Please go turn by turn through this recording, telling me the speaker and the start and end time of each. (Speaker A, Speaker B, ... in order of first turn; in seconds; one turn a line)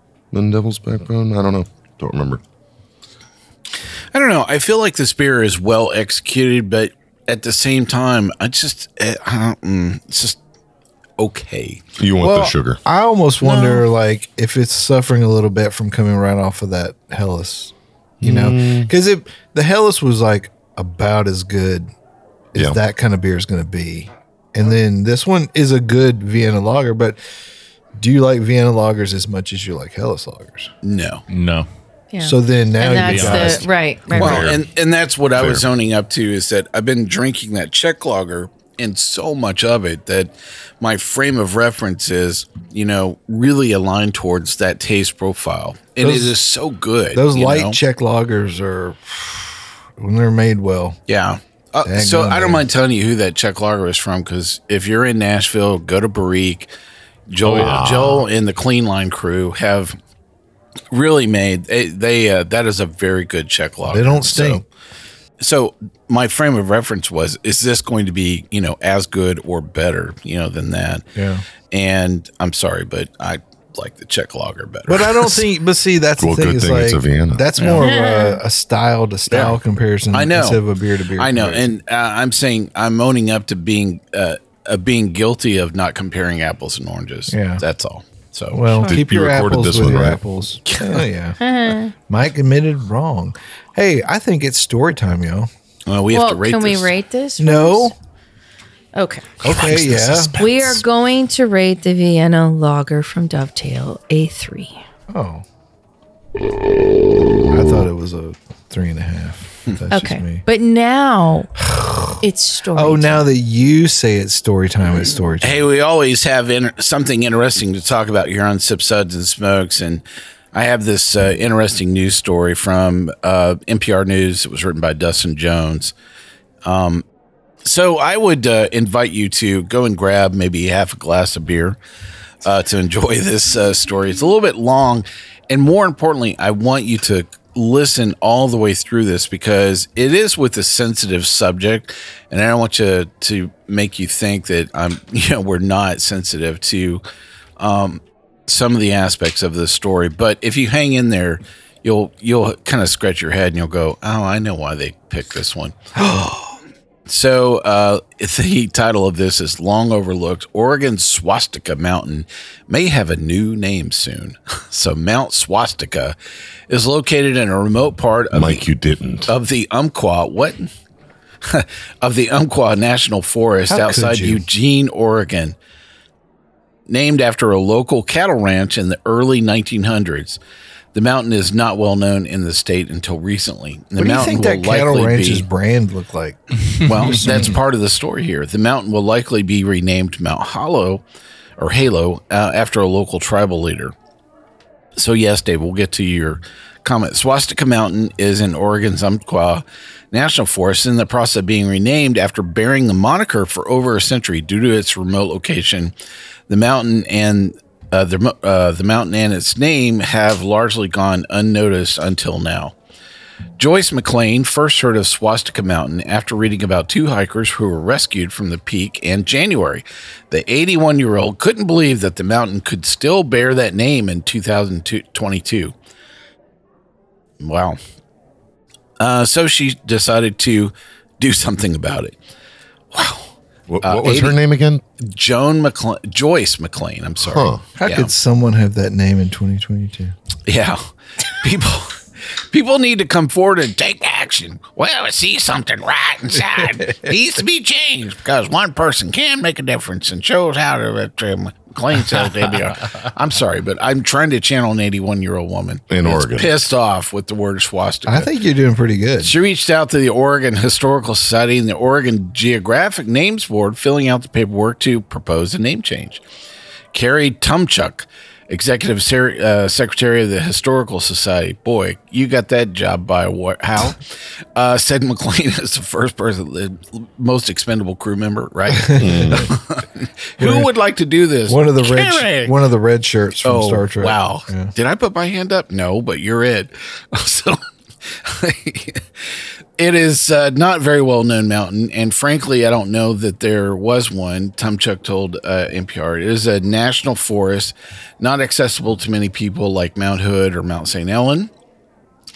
Speaker A: 0.3-2.4
Speaker B: 4.1-10.4
Speaker B: 11.2-11.8
Speaker A: 12.0-12.8
Speaker C: 12.2-21.9
Speaker D: 13.5-13.7
Speaker A: 18.2-18.9
Speaker C: 22.5-27.2
Speaker A: 22.6-22.8
Speaker C: 28.0-30.7
Speaker B: 30.8-31.2
Speaker E: 31.3-31.7
Speaker D: 32.1-34.4
Speaker C: 32.2-33.7
Speaker E: 32.9-33.7
Speaker A: 34.1-34.7
Speaker B: 34.1-47.8
Speaker A: 35.4-35.7
Speaker C: 46.0-46.4
Speaker C: 47.1-51.0
Speaker B: 51.1-56.7
Speaker C: 51.9-52.7
Speaker B: 57.3-60.0
Speaker E: 57.4-58.2
Speaker A: 57.6-58.1
Speaker B: 60.9-64.6
Speaker C: 63.9-64.6
Speaker B: 65.4-71.0
Speaker C: 71.2-71.5
Speaker B: 71.7-75.4
Speaker C: 74.9-81.7
Speaker A: 76.2-77.5
Speaker D: 77.7-78.4
Speaker B: 80.1-80.6
Speaker B: 81.2-88.8
Speaker C: 87.3-87.6
Speaker C: 88.5-91.4
Speaker D: 88.7-89.0
Speaker A: 88.9-90.2
Speaker B: 90.7-91.0
Speaker D: 91.4-91.9
Speaker C: 92.0-95.5
Speaker B: 95.9-96.9
Speaker D: 96.1-97.9
Speaker C: 97.4-98.0
Speaker D: 99.0-99.3
Speaker C: 99.4-100.3
Speaker A: 99.4-100.8
Speaker D: 100.4-104.8
Speaker C: 105.1-105.5
Speaker C: 107.5-110.4
Speaker D: 109.9-111.5
Speaker C: 111.6-112.2
Speaker D: 112.2-113.3
Speaker C: 112.7-115.6
Speaker B: 115.4-125.9
Speaker B: 126.6-127.0
Speaker B: 127.7-131.8
Speaker B: 132.4-147.0
Speaker B: 147.6-155.8
Speaker C: 156.0-156.4
Speaker B: 157.1-166.2
Speaker B: 166.7-168.6
Speaker A: 168.3-169.3
Speaker B: 169.3-170.7
Speaker B: 171.4-175.6
Speaker C: 173.7-174.4
Speaker B: 176.9-180.4
Speaker B: 180.9-185.4
Speaker C: 184.0-186.4
Speaker B: 186.8-191.0
Speaker C: 187.0-187.6
Speaker B: 191.6-193.9
Speaker B: 195.0-205.9
Speaker B: 206.5-212.7
Speaker B: 213.6-225.7
Speaker B: 227.4-227.8
Speaker B: 229.0-232.2
Speaker B: 232.9-233.3
Speaker A: 233.7-234.8
Speaker B: 233.8-234.4
Speaker B: 235.0-238.1
Speaker A: 237.2-237.6
Speaker C: 237.8-240.2
Speaker B: 240.5-242.0
Speaker B: 242.5-258.3
Speaker A: 255.9-256.6
Speaker C: 258.1-259.3
Speaker B: 259.2-266.2
Speaker B: 266.9-274.0
Speaker B: 274.6-282.5
Speaker C: 278.7-279.5
Speaker A: 279.0-279.5
Speaker C: 280.4-280.7
Speaker C: 281.5-284.7
Speaker B: 283.4-289.0
Speaker B: 289.8-301.5